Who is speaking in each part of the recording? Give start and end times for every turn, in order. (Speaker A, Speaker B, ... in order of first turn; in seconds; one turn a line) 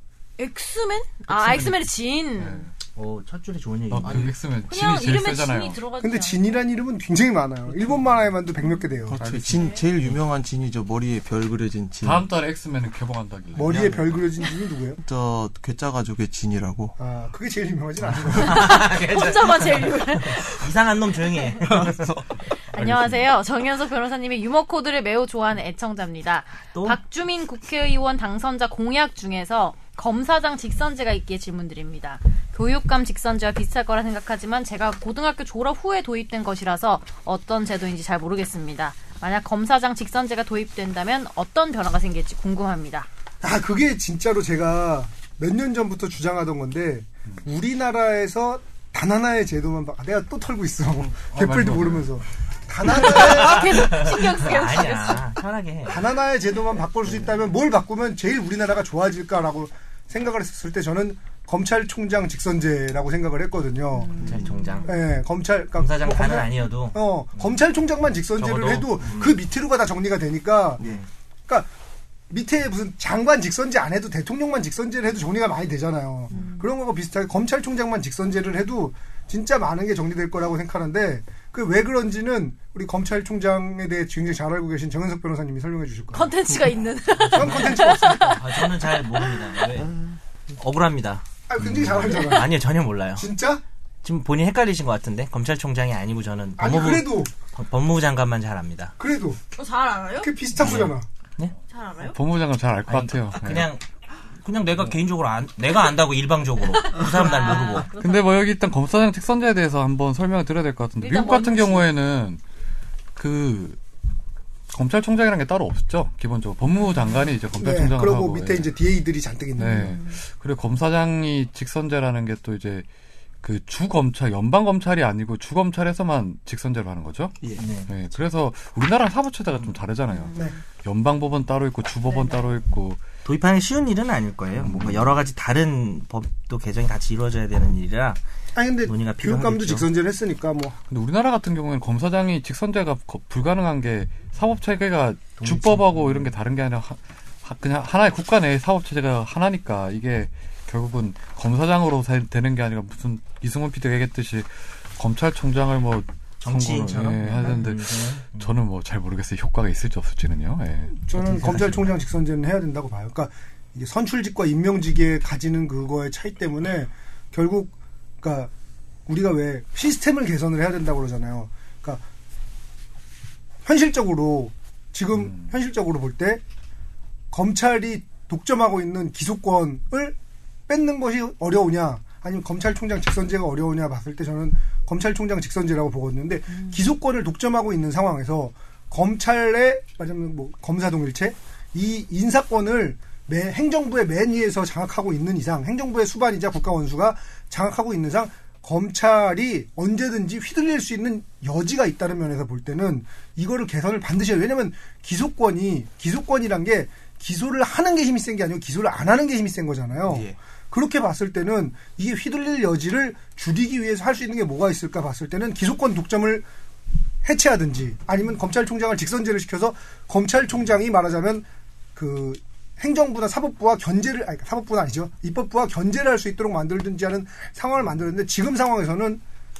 Speaker A: 0.4-2.7
Speaker B: 1.3-2.7
Speaker C: 2.9-4.3
Speaker B: 3.9-5.8
Speaker A: 4.7-6.7
Speaker D: 6.0-9.2
Speaker A: 8.6-8.9
Speaker E: 9.1-12.3
Speaker B: 9.2-9.8
Speaker A: 9.5-9.9
Speaker B: 12.0-14.1
Speaker D: 13.6-15.0
Speaker E: 13.6-14.2
Speaker E: 15.0-17.0
Speaker D: 17.0-18.8
Speaker C: 18.3-22.1
Speaker A: 18.4-20.5
Speaker A: 21.2-21.6
Speaker E: 21.8-22.2
Speaker A: 22.6-43.1
Speaker B: 22.7-23.3
Speaker C: 26.7-27.0
Speaker D: 43.4-53.8
Speaker B: 51.1-52.2
Speaker A: 52.8-55.3
Speaker C: 53.4-56.2
Speaker D: 55.9-70.9
Speaker C: 57.0-57.5
Speaker A: 63.9-64.9
Speaker C: 64.2-65.2
Speaker C: 65.8-67.8
Speaker B: 68.4-69.0
Speaker C: 68.4-69.4
Speaker D: 72.3-86.3
Speaker A: 76.3-76.7
Speaker A: 86.1-89.5
Speaker E: 86.5-86.8
Speaker D: 87.3-88.7
Speaker C: 88.3-90.0
Speaker E: 89.9-90.2
Speaker C: 90.6-91.3
Speaker D: 91.5-93.6
Speaker C: 92.3-93.3
Speaker C: 94.0-99.0
Speaker D: 96.6-97.4
Speaker D: 99.0-99.4
Speaker A: 99.5-100.5
Speaker D: 100.2-101.1
Speaker C: 100.6-101.5
Speaker A: 101.7-102.2
Speaker B: 102.0-103.7
Speaker C: 102.8-103.8
Speaker C: 104.4-107.9
Speaker A: 106.7-108.3
Speaker B: 107.9-112.4
Speaker A: 111.0-111.9
Speaker B: 113.2-113.8
Speaker B: 114.7-118.7
Speaker D: 117.5-119.9
Speaker B: 119.6-122.9
Speaker A: 119.6-120.2
Speaker B: 123.4-133.0
Speaker C: 127.6-128.0
Speaker A: 130.1-130.6
Speaker A: 132.1-132.5
Speaker C: 133.2-138.2
Speaker E: 134.6-135.1
Speaker D: 138.6-140.8
Speaker C: 138.8-139.9
Speaker B: 140.9-161.1
Speaker C: 145.4-146.3
Speaker C: 156.4-158.6
Speaker D: 160.9-168.5
Speaker C: 161.2-161.9
Speaker D: 169.1-172.0
Speaker D: 173.7-176.4
Speaker B: 175.1-175.4
Speaker D: 177.3-180.2
Speaker D: 180.7-216.5
Speaker A: 186.5-186.8
Speaker E: 210.1-210.4
Speaker D: 217.2-229.2